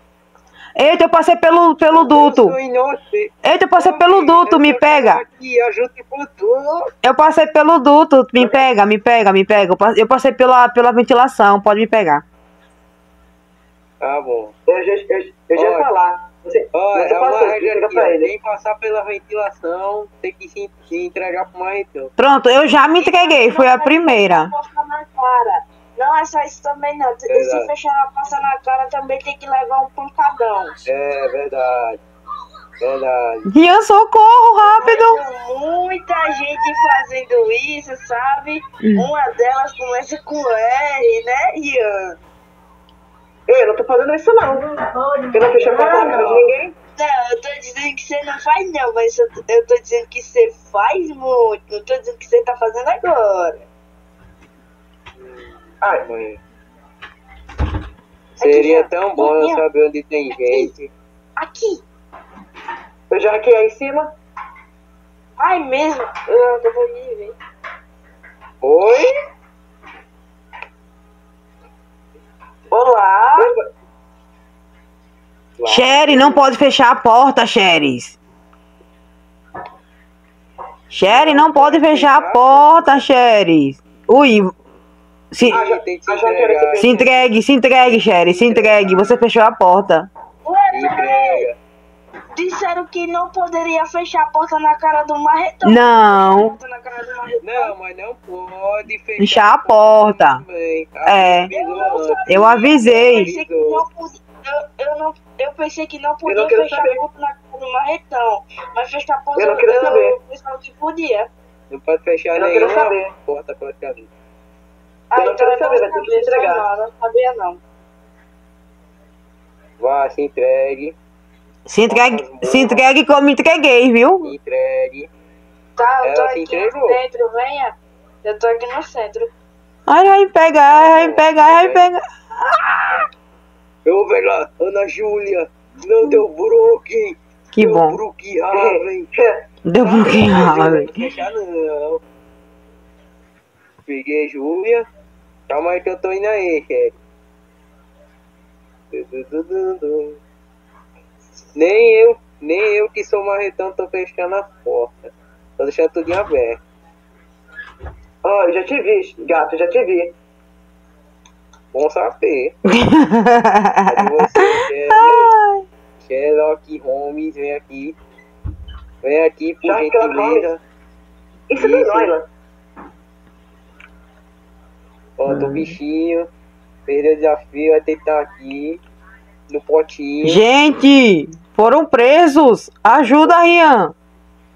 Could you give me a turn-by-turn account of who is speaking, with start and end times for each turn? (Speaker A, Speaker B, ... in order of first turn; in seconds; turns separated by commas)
Speaker A: 0.8-2.6, Speaker B: 1.9-6.9, Speaker A: 3.4-5.2, Speaker A: 7.0-12.2, Speaker C: 8.4-8.7, Speaker B: 14.0-14.5, Speaker C: 14.7-18.3, Speaker B: 15.6-15.9, Speaker B: 16.7-22.1, Speaker A: 22.2-24.5, Speaker D: 23.0-30.8, Speaker B: 27.3-27.7, Speaker B: 30.9-32.0, Speaker B: 32.8-33.5, Speaker A: 33.5-35.2, Speaker D: 34.8-42.2, Speaker A: 38.8-39.1, Speaker C: 43.5-44.7, Speaker C: 45.3-46.8, Speaker D: 45.6-46.1, Speaker B: 45.9-46.5, Speaker D: 47.0-53.6, Speaker B: 55.2-56.4, Speaker D: 58.4-59.6, Speaker B: 58.4-60.9, Speaker D: 60.3-60.7, Speaker D: 61.4-61.8, Speaker C: 63.1-64.1, Speaker D: 65.4-67.4, Speaker B: 68.6-69.1, Speaker D: 72.7-73.5, Speaker C: 73.4-73.6, Speaker B: 75.6-76.5, Speaker A: 75.7-78.2, Speaker A: 80.9-84.5, Speaker B: 81.0-83.0, Speaker A: 85.3-85.6, Speaker B: 85.4-89.2, Speaker C: 85.5-87.1, Speaker A: 86.8-90.1, Speaker D: 90.5-91.5, Speaker B: 90.7-91.6, Speaker D: 92.3-97.8, Speaker A: 95.7-96.6, Speaker B: 97.4-103.8, Speaker A: 99.2-100.4, Speaker A: 101.0-101.5, Speaker D: 101.5-111.3, Speaker A: 102.3-103.3, Speaker C: 106.3-107.0, Speaker C: 109.4-110.2, Speaker B: 111.7-114.1, Speaker C: 112.3-113.1, Speaker D: 115.1-117.6, Speaker C: 115.2-116.7, Speaker B: 119.8-121.0, Speaker A: 121.7-124.3, Speaker B: 121.9-122.9, Speaker B: 124.2-125.1, Speaker D: 125.8-129.3, Speaker B: 126.0-127.0, Speaker A: 129.9-133.1, Speaker B: 130.7-131.9, Speaker B: 133.8-139.1, Speaker A: 137.5-138.0, Speaker C: 138.5-139.4, Speaker A: 139.7-141.0, Speaker B: 139.8-142.0, Speaker B: 143.9-144.9, Speaker B: 145.5-146.9, Speaker B: 148.9-150.2, Speaker B: 151.6-155.1, Speaker B: 155.6-156.6, Speaker C: 158.2-160.1, Speaker B: 161.7-162.6, Speaker A: 162.7-165.7, Speaker B: 163.9-165.3, Speaker B: 166.0-168.0, Speaker B: 169.0-170.6, Speaker C: 169.6-170.5, Speaker C: 171.5-172.3, Speaker B: 171.6-172.1, Speaker B: 175.2-176.3, Speaker A: 175.3-175.7, Speaker B: 176.9-178.8, Speaker B: 179.5-180.4, Speaker A: 180.2-183.9